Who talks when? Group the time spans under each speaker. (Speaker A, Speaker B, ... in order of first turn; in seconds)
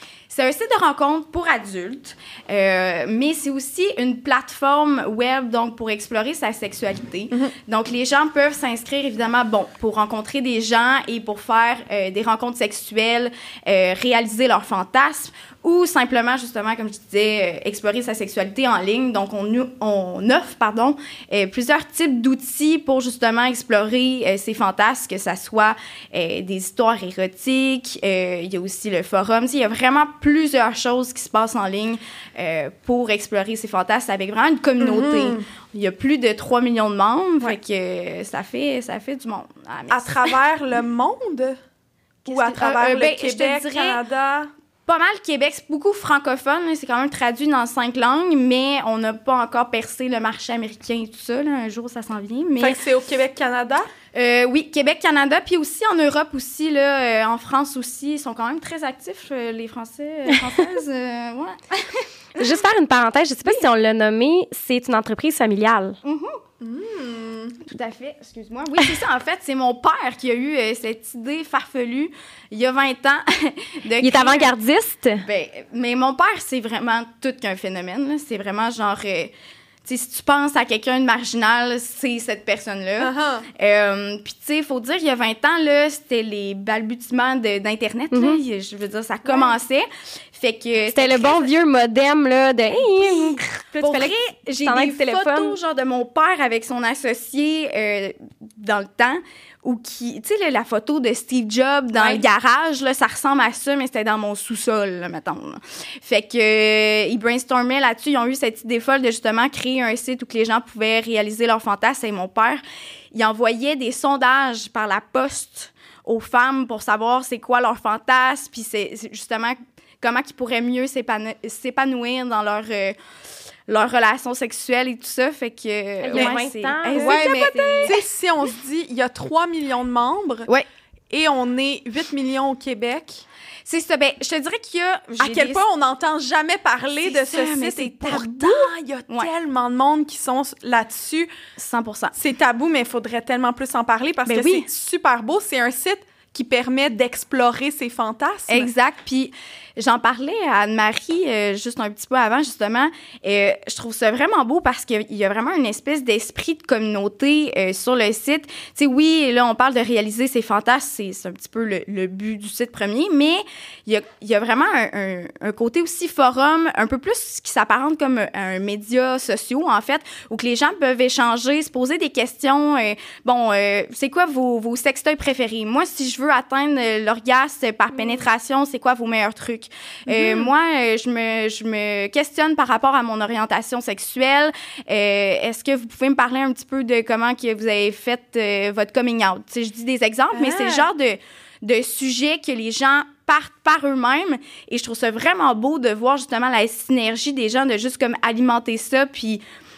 Speaker A: 0.3-40.4, 42.3-44.0, 44.9-52.8, 54.1-62.5, 66.0-66.4, 67.6-74.5, 75.2-79.3, 79.8-91.7, 92.9-112.6, 113.1-123.0, 123.7-128.0, 133.7-135.6, 137.0-139.3, 141.6-142.1, 144.3-144.7, 148.5-199.4
Speaker B: 34.8-35.4, 39.9-41.6, 42.2-44.5, 52.6-53.9, 66.6-67.6, 83.0-83.5, 126.9-130.5, 131.1-133.2, 135.2-141.3, 142.2-148.7, 190.3-190.8
Speaker C: 62.4-66.0, 74.0-75.2, 88.1-88.4, 90.9-95.6, 126.0-128.0